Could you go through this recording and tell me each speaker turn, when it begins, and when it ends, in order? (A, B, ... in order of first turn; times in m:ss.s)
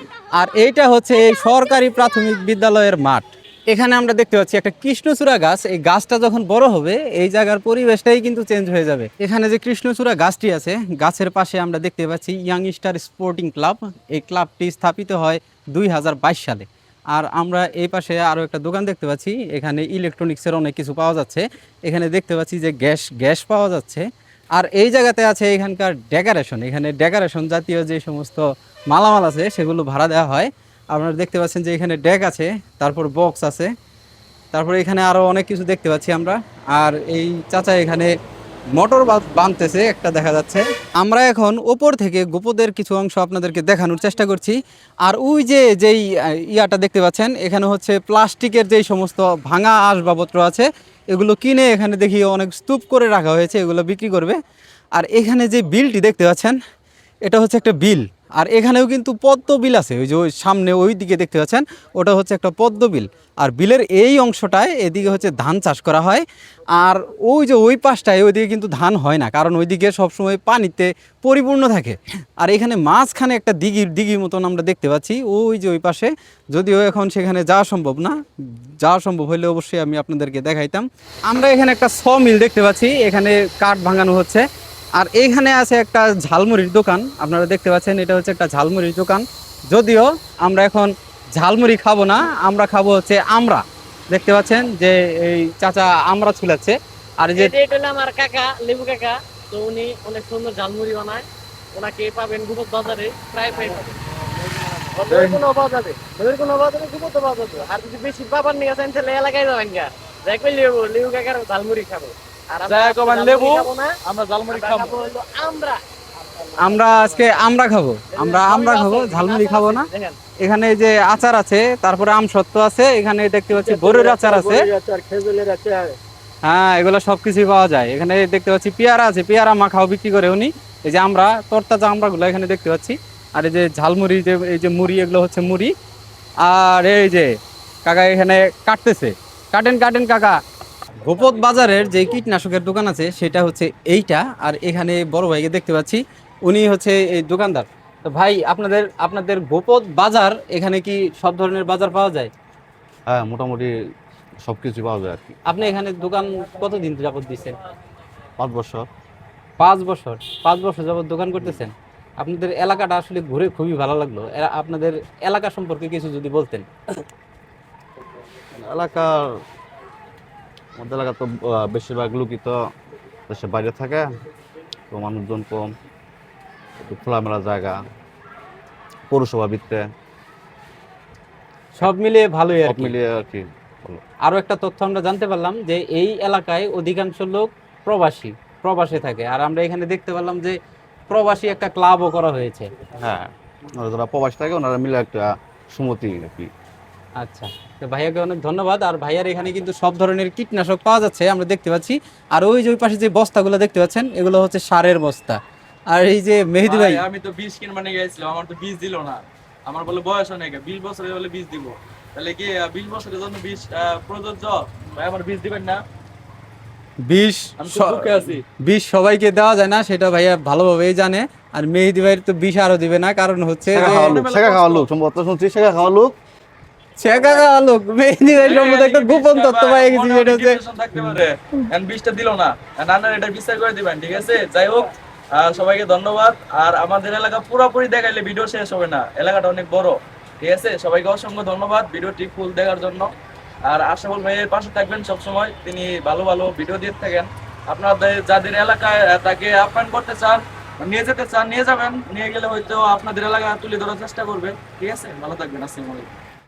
0:00.4-0:33.7 A
0:34.5-0:38.1 A
0:38.8-0:54.4 A
0:55.0-0:56.6 A
0:57.2-1:06.2 A
1:06.8-1:18.2 A
1:18.8-1:24.4 A
1:25.0-1:37.5 A
1:37.4-1:44.0 B
1:44.9-1:53.9 B
1:45.1-1:45.4 C
1:52.7-1:54.9 C
1:54.5-1:55.8 B
1:56.6-1:59.9 A
1:56.6-1:57.4 B
1:58.1-2:00.2 B
2:00.4-2:04.7 A
2:03.6-2:05.9 C
2:06.4-2:15.7 A
2:16.4-2:17.3 A
2:17.9-2:20.4 A
2:21.0-2:32.3 A
2:33.1-2:33.7 D
2:34.4-2:35.4 D
2:35.5-2:37.6 A
2:38.4-2:38.9 D
2:39.6-2:46.7 A
2:48.6-2:49.3 D
2:50.8-2:52.6 D
2:53.3-2:54.1 D
2:54.9-2:55.7 D
2:56.8-2:57.8 D
2:59.1-2:59.9 D
3:01.8-3:03.0 A
3:02.6-3:04.0 D
3:04.3-3:10.6 A
3:11.1-3:12.7 A
3:13.0-3:16.5 D
3:17.2-3:25.4 A
3:25.9-3:27.0 A
3:26.6-3:35.8 C
3:37.1-3:44.2 A
3:37.6-3:38.4 C
3:43.7-3:44.9 C
3:43.7-3:46.2 D
3:47.0-3:50.6 A
3:48.4-4:03.1 C
4:03.7-4:16.1 C